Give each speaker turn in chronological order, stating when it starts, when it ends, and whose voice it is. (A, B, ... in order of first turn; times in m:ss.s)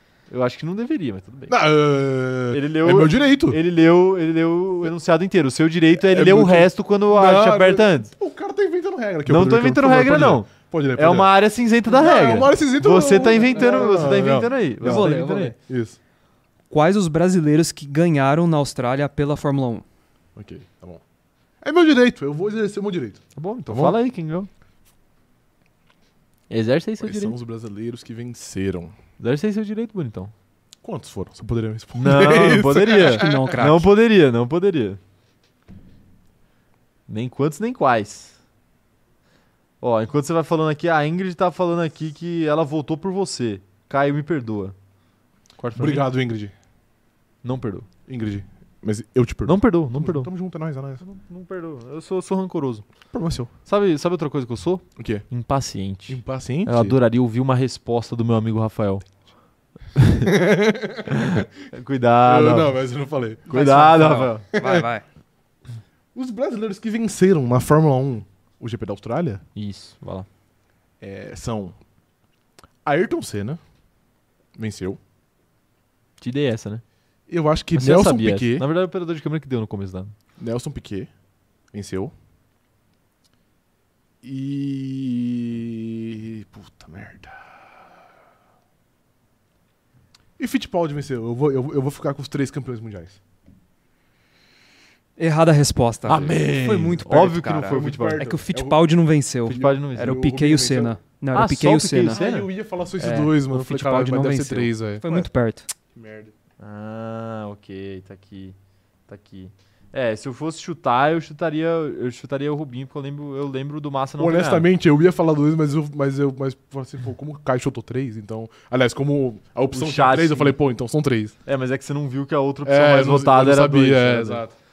0:00.3-0:01.6 A
0:01.5-0:03.6 B
0:02.5-0:08.1 A
0:06.0-0:11.3 B
0:09.3-0:15.6 A
0:11.9-0:15.1 B
0:14.8-0:15.6 C
0:15.6-0:16.0 B
0:16.7-0:19.8 C
0:20.4-0:21.0 B
0:21.6-0:24.0 B
0:23.4-0:24.5 A
0:26.5-0:27.4 A
0:27.0-0:29.0 B
0:29.2-0:30.3 A
0:30.8-0:33.6 B
0:32.0-0:35.0 A
0:32.9-0:33.9 C
0:37.1-0:38.4 A
0:39.8-0:44.8 A
0:45.6-0:46.1 A
0:45.8-0:46.5 B
0:47.4-0:47.9 A
0:48.1-0:51.0 B
0:49.5-0:50.3 A
0:51.0-0:52.8 A
0:53.1-0:53.5 B
0:53.7-0:59.0 A
0:55.0-0:55.3 B
0:56.1-0:57.0 B
1:00.0-1:00.3 A
1:00.2-1:01.3 B
1:01.1-1:02.8 A
1:02.2-1:04.9 B
1:03.5-1:04.5 A
1:03.5-1:05.0 C
1:06.2-1:09.4 B
1:09.6-1:10.3 A
1:11.0-1:11.8 B
1:12.8-1:13.6 B
1:14.6-1:15.0 B
1:16.2-1:16.8 A
1:17.3-1:18.7 B
1:17.8-1:20.1 A
1:20.4-1:21.1 B
1:21.7-1:22.1 B
1:24.2-1:27.4 B
1:30.4-1:33.2 B
1:35.2-1:42.2 C
1:36.1-1:38.3 A
1:37.7-1:38.8 B
1:39.5-1:40.2 A
1:39.5-1:41.0 B
1:41.3-1:42.5 A
1:42.1-1:45.3 B
1:43.0-1:43.3 A
1:43.0-1:45.7 C
1:45.9-1:46.3 B
1:46.6-1:48.6 A
1:49.1-1:54.7 A
1:54.2-2:01.4 B
1:59.7-2:00.6 A
2:01.5-2:04.4 A
2:02.6-2:04.5 B